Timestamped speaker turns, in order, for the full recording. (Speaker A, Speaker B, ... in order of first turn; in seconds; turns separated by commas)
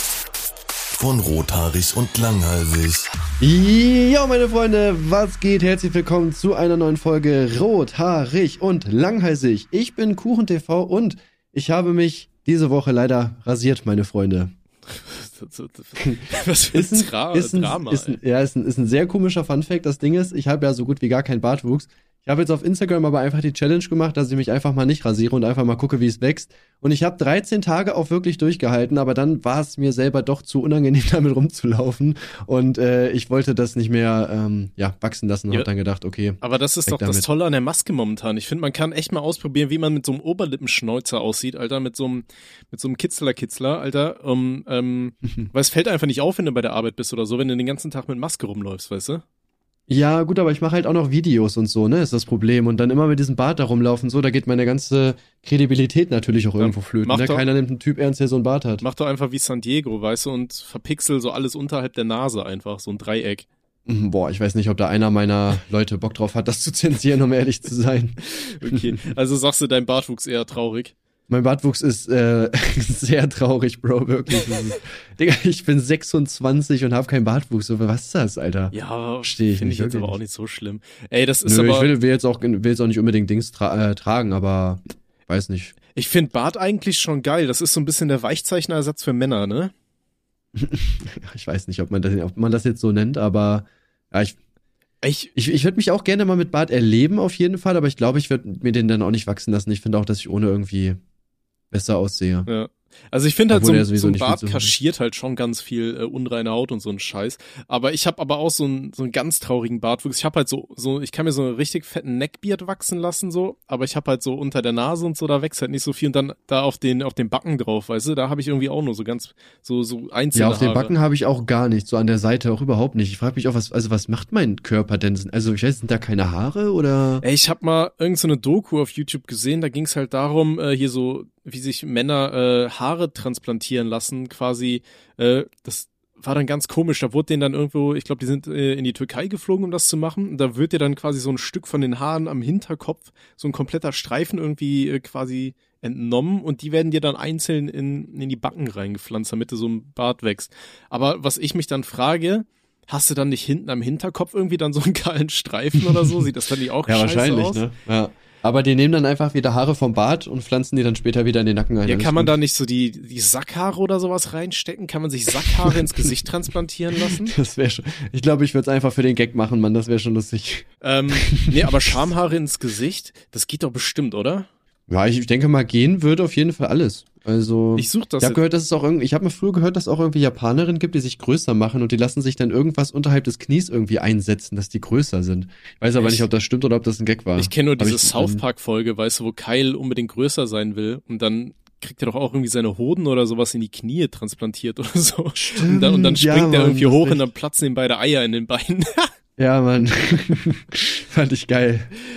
Speaker A: 0.9-3.0, Speaker B: 3.4-14.5, Speaker C: 14.9-18.2, Speaker B: 16.0-37.2, Speaker C: 36.4-49.2, Speaker B: 49.9-58.8, Speaker C: 56.6-57.5, Speaker C: 58.8-63.5, Speaker B: 63.9-68.2, Speaker C: 68.2-70.9, Speaker B: 71.3-80.2, Speaker C: 78.7-81.9, Speaker B: 81.4-85.8, Speaker C: 85.9-89.7, Speaker B: 90.5-94.4, Speaker C: 95.0-95.3, Speaker B: 95.3-101.0, Speaker B: 101.7-102.5, Speaker C: 102.5-120.9, Speaker B: 103.5-104.7, Speaker B: 120.3-127.2, Speaker C: 127.2-157.7, Speaker B: 155.9-156.2, Speaker B: 156.9-162.3, Speaker C: 161.8-167.3, Speaker B: 165.6-166.1, Speaker B: 167.0-170.7, Speaker C: 170.8-174.5, Speaker B: 171.2-171.7, Speaker B: 174.9-188.4, Speaker C: 177.8-178.4, Speaker C: 185.9-186.2, Speaker C: 187.4-199.1, Speaker B: 195.4-197.2, Speaker B: 199.4-201.9